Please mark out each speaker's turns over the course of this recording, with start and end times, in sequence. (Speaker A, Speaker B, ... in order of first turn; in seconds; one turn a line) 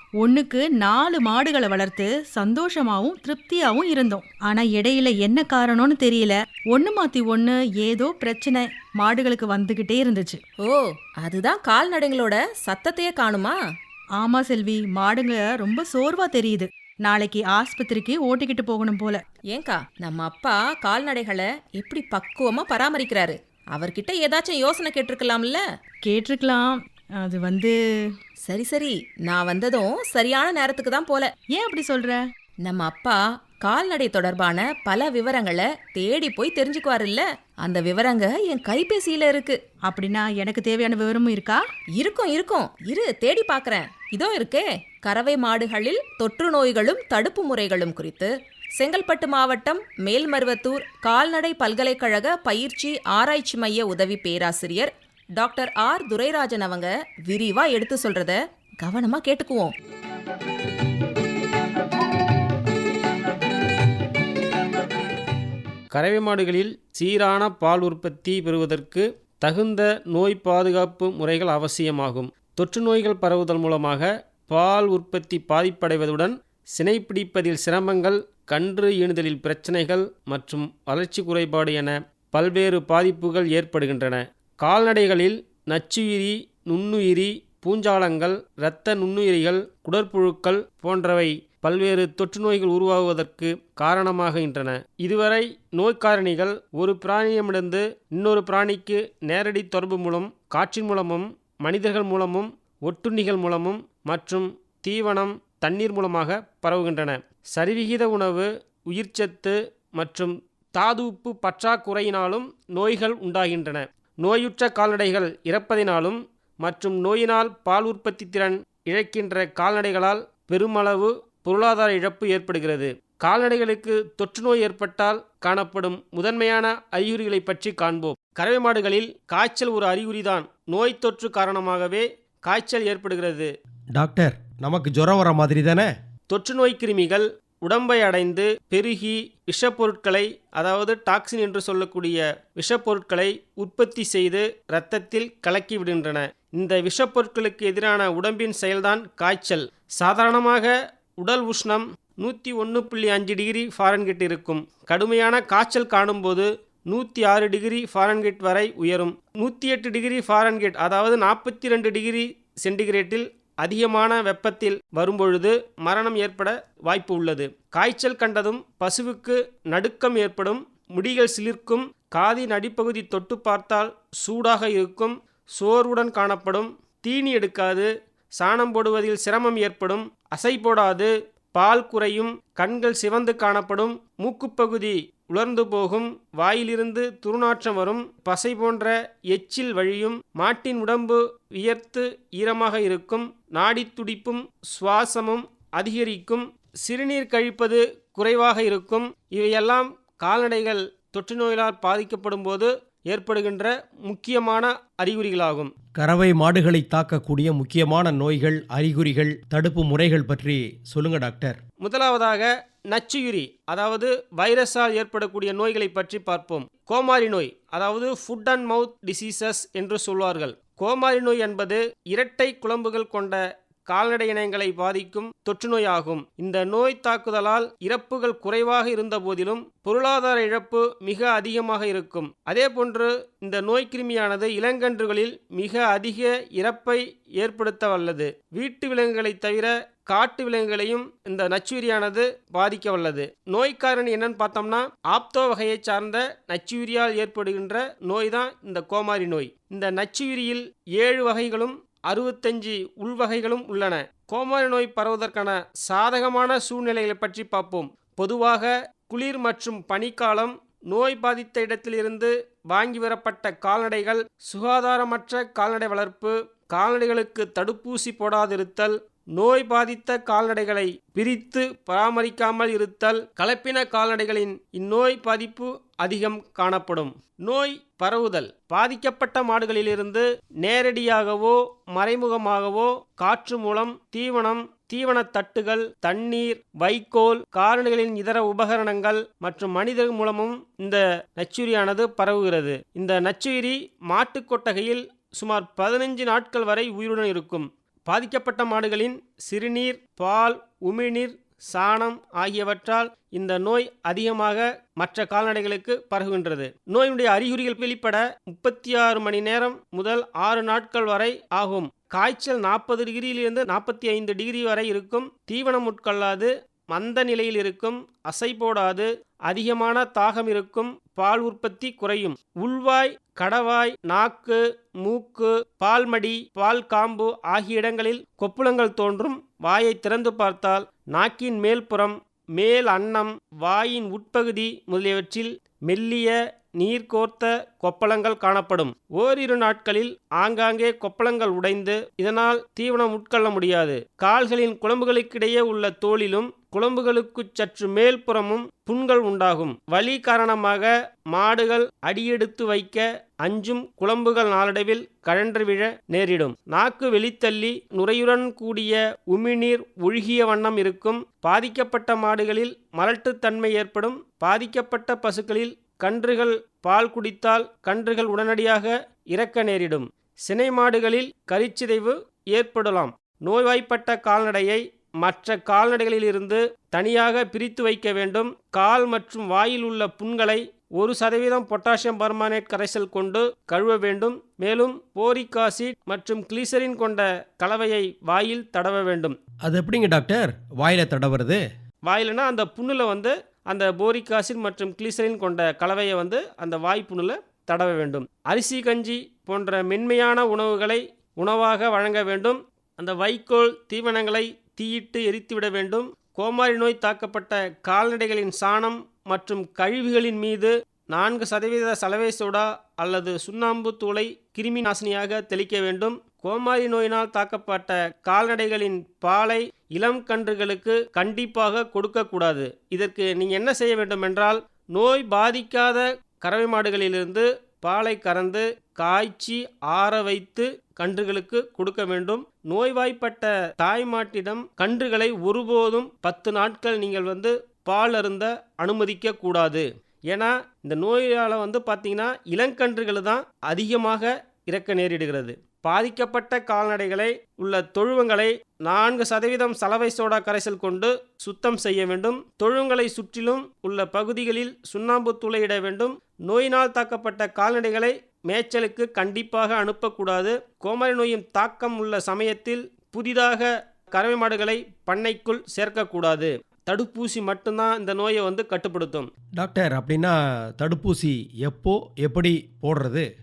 Speaker A: 0.2-10.4
Speaker B: 10.6-13.6
Speaker A: 14.2-19.2
Speaker B: 19.5-25.6
Speaker A: 26.0-27.7
Speaker B: 28.5-31.3
Speaker A: 31.5-32.2
Speaker B: 32.6-39.6
Speaker A: 39.9-41.6
Speaker B: 42.0-59.7
Speaker C: 65.9-133.5
Speaker D: 133.9-135.9
Speaker C: 136.3-205.7
Speaker D: 205.9-211.6
Speaker C: 211.8-389.4
Speaker D: 389.6-391.6
Speaker C: 392.1-469.3
Speaker D: 469.6-473.3